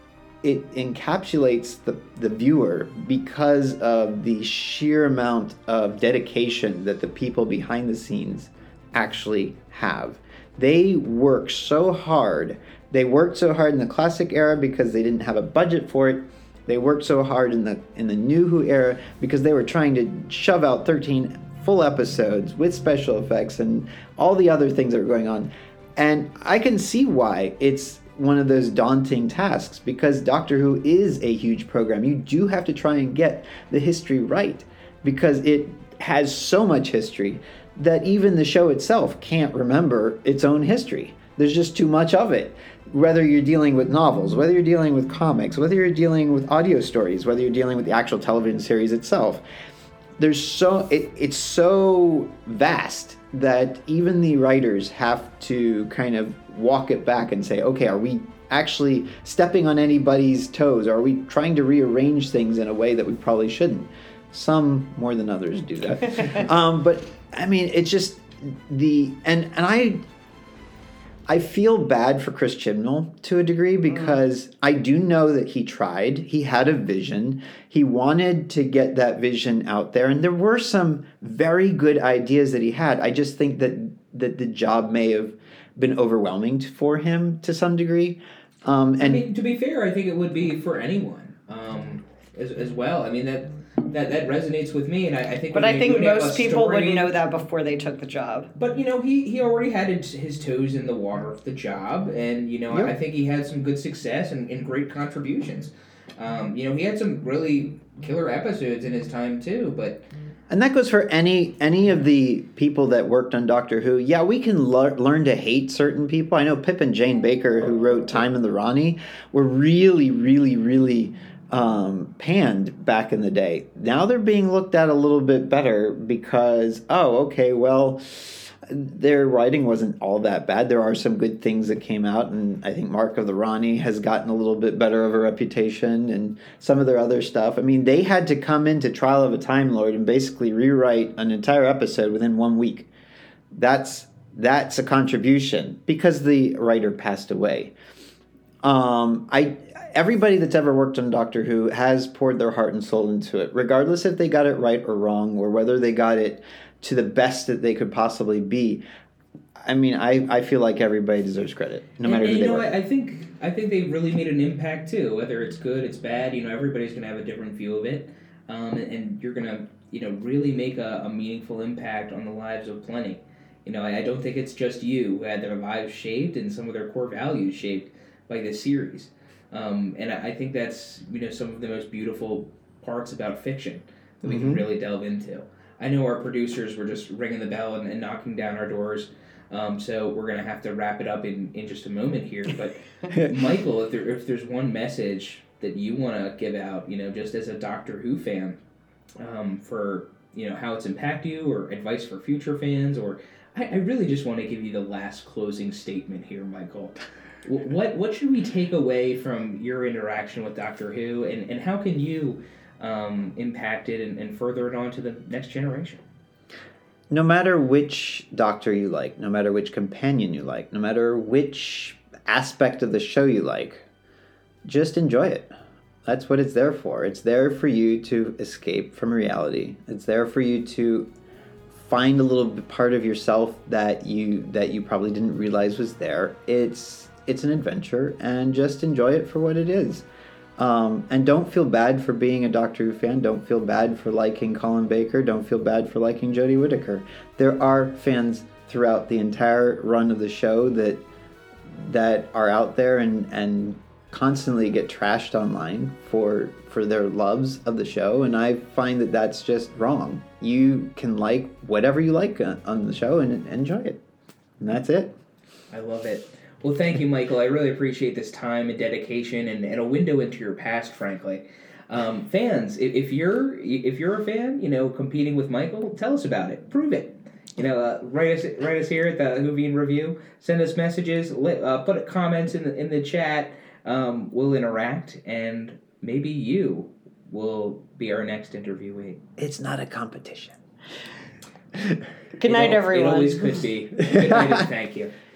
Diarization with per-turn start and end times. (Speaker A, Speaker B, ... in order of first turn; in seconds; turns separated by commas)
Speaker A: 0.4-49.4, Speaker A: 50.2-70.0, Speaker A: 71.3-89.2, Speaker B: 89.0-97.1, Speaker C: 95.5-98.5, Speaker B: 98.5-110.0, Speaker A: 102.7-103.0, Speaker A: 110.5-142.9, Speaker A: 143.5-147.7, Speaker A: 148.6-158.8, Speaker A: 159.6-162.8, Speaker B: 162.0-198.6, Speaker A: 184.2-184.6, Speaker A: 193.1-193.3, Speaker B: 199.2-216.0, Speaker A: 217.1-223.8, Speaker A: 224.6-225.5, Speaker A: 226.0-231.1, Speaker A: 231.7-240.0, Speaker A: 240.6-251.0, Speaker A: 251.7-264.0, Speaker A: 264.6-265.1, Speaker B: 265.7-289.2, Speaker A: 289.4-290.6, Speaker C: 292.4-293.6, Speaker B: 292.4-295.1, Speaker A: 294.0-294.6